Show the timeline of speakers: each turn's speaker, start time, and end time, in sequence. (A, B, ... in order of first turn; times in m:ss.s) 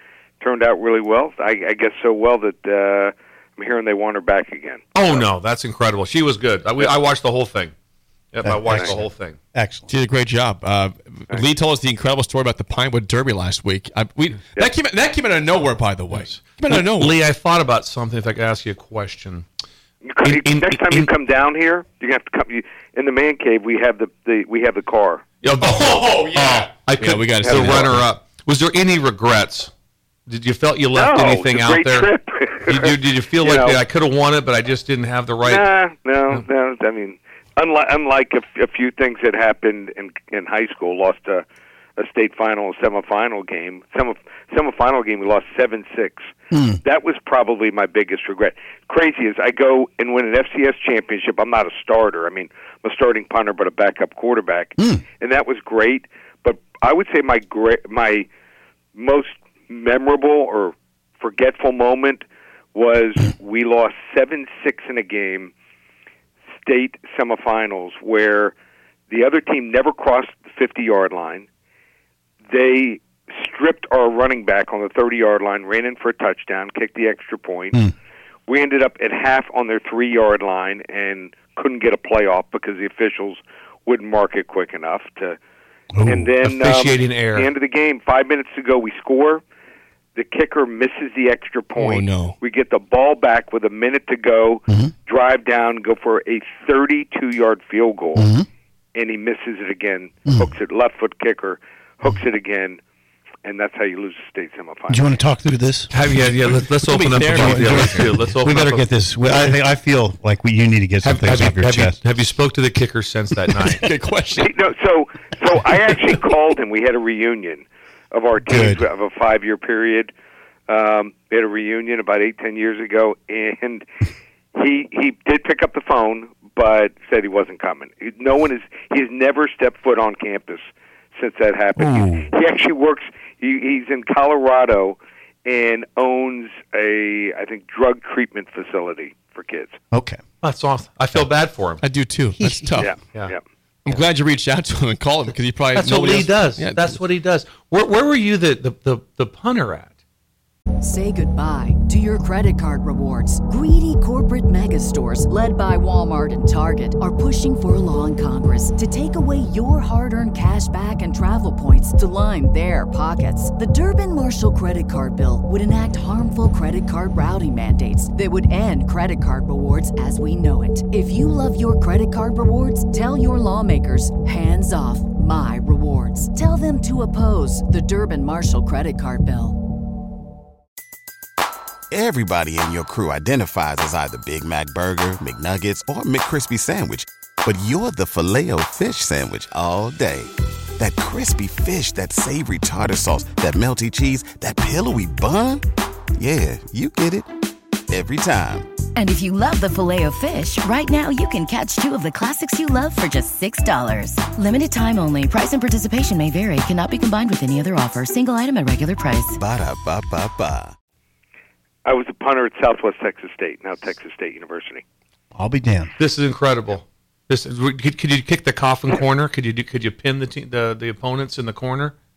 0:00.4-0:05.2 A
0:04.9-0:07.7 B
0:08.3-0:09.4 B
0:08.4-0:09.9 C
0:09.9-0:17.2 D
0:16.1-0:19.4 B
0:20.0-0:25.2 A
0:20.2-0:21.1 B
0:25.4-0:29.7 B
0:25.6-0:28.1 D
0:27.5-0:27.8 A
0:30.3-0:32.1 B
0:30.9-0:33.8 A
0:32.6-0:35.6 B
0:35.4-0:41.4 A
0:42.0-0:46.3 A
0:46.5-0:46.8 C
0:46.8-0:58.3 A
0:54.8-0:55.0 C
0:58.9-1:05.5 A
1:06.6-1:08.5 A
1:09.1-1:11.5 A
1:12.5-1:17.8 A
1:18.5-1:25.4 A
1:25.9-1:26.3 C
1:26.0-1:29.4 A
1:26.4-1:27.5 B
1:30.2-1:38.3 A
1:31.8-1:32.4 D
1:34.7-1:34.9 C
1:38.1-1:38.5 C
1:38.9-1:42.8 A
1:40.2-1:40.5 C
1:43.4-1:45.1 A
1:44.9-1:45.9 C
1:45.9-1:48.8 B
1:46.8-1:48.1 D
1:47.3-1:52.0 C
1:51.0-1:53.8 B
1:53.7-1:54.5 D
1:54.4-2:00.1 A
1:58.4-1:58.9 C
2:00.7-2:03.8 A
2:04.5-2:19.8 A
2:11.8-2:12.3 C
2:19.9-2:20.2 C
2:20.4-2:21.8 B
2:21.8-2:22.9 D
2:22.4-2:22.9 C
2:22.8-2:23.4 A
2:23.8-2:27.0 D
2:25.7-2:29.9 B
2:30.8-2:59.6 E
3:01.9-3:15.6 F
3:16.2-3:17.3 F
3:17.9-3:18.7 F
3:18.9-3:29.4 G
3:29.3-3:30.7 F
3:31.8-3:34.8 A
3:35.3-3:35.9 C
3:36.0-3:41.9 B